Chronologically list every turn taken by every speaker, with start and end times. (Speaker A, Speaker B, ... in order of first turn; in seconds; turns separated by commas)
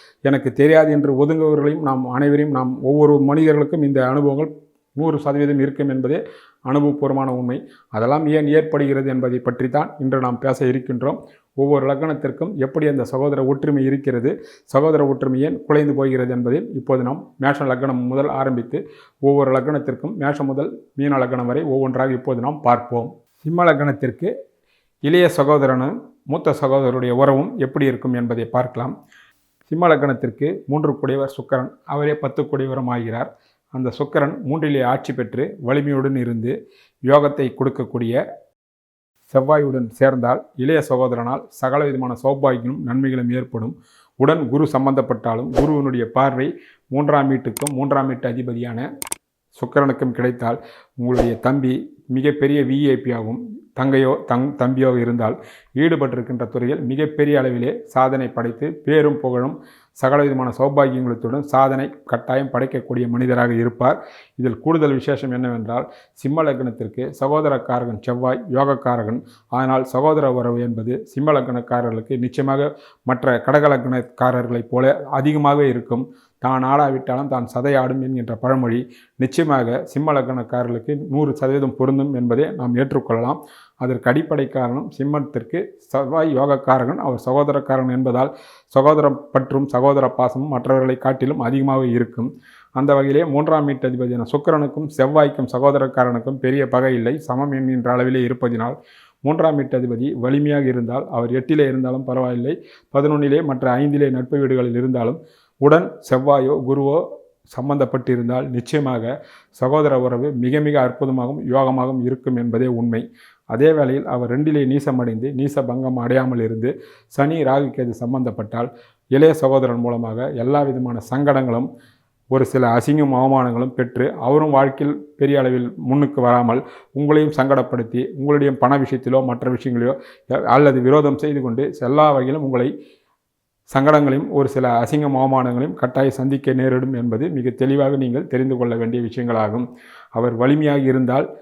Speaker A: 0.2-24.3, Speaker A: 25.0-28.9, Speaker A: 29.7-38.2, Speaker A: 39.3-48.9, Speaker A: 49.5-121.7, Speaker A: 122.3-132.7, Speaker A: 133.7-141.3